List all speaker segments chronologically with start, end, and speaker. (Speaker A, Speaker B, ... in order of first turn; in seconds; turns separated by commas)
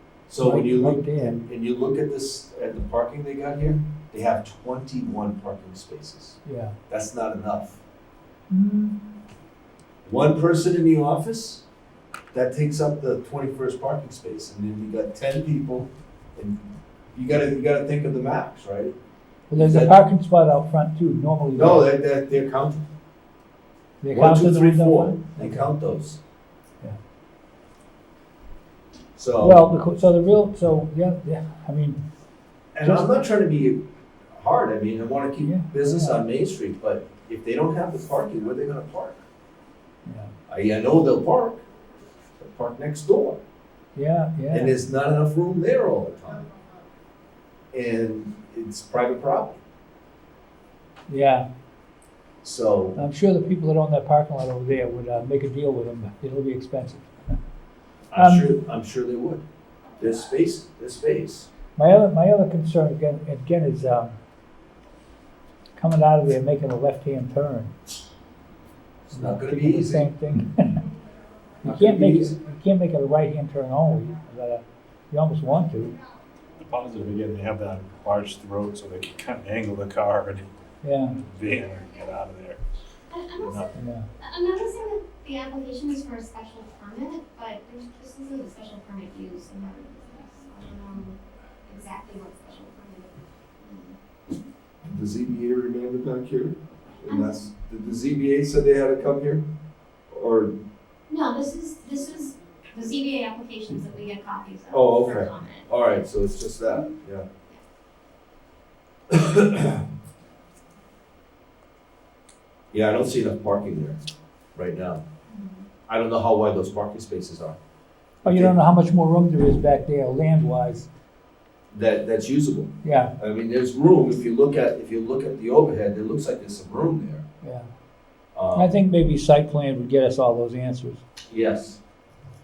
Speaker A: 0.3-6.4, Speaker B: 0.4-1.4, Speaker B: 6.5-6.8, Speaker A: 6.9-7.8, Speaker B: 8.5-9.0, Speaker A: 10.1-11.6, Speaker A: 12.3-16.6, Speaker A: 17.1-18.9, Speaker B: 19.5-21.9, Speaker A: 19.6-20.0, Speaker A: 21.6-22.9, Speaker B: 24.0-25.7, Speaker A: 24.1-26.2, Speaker A: 29.2-29.7, Speaker B: 29.4-32.0, Speaker A: 32.7-39.2, Speaker B: 32.8-33.1, Speaker B: 35.4-36.2, Speaker B: 40.1-40.3, Speaker A: 40.5-41.6, Speaker A: 42.4-43.4, Speaker B: 44.0-44.8, Speaker A: 44.5-46.5, Speaker A: 47.7-49.6, Speaker B: 51.1-51.5, Speaker A: 52.4-53.0, Speaker B: 53.0-57.1, Speaker A: 58.1-59.4, Speaker B: 58.2-58.6, Speaker A: 60.0-61.5, Speaker B: 61.8-64.2, Speaker B: 65.8-67.8, Speaker A: 69.1-70.1, Speaker B: 69.1-70.8, Speaker B: 71.6-76.0, Speaker A: 71.6-72.4, Speaker C: 76.6-80.5, Speaker B: 80.8-81.2, Speaker C: 81.2-82.6, Speaker D: 83.1-94.0, Speaker C: 83.4-83.7, Speaker B: 83.8-84.1, Speaker A: 94.8-99.4, Speaker D: 97.1-97.4, Speaker A: 100.1-100.6, Speaker D: 101.1-105.9, Speaker A: 104.7-107.3, Speaker A: 109.1-109.9, Speaker A: 112.7-114.0, Speaker A: 114.5-115.0, Speaker D: 115.3-115.7, Speaker A: 115.9-117.6, Speaker A: 118.2-118.5, Speaker B: 118.2-120.9, Speaker A: 121.7-127.2, Speaker B: 122.8-123.1, Speaker B: 127.4-127.7, Speaker A: 128.3-128.8, Speaker B: 128.6-131.0, Speaker A: 131.3-131.8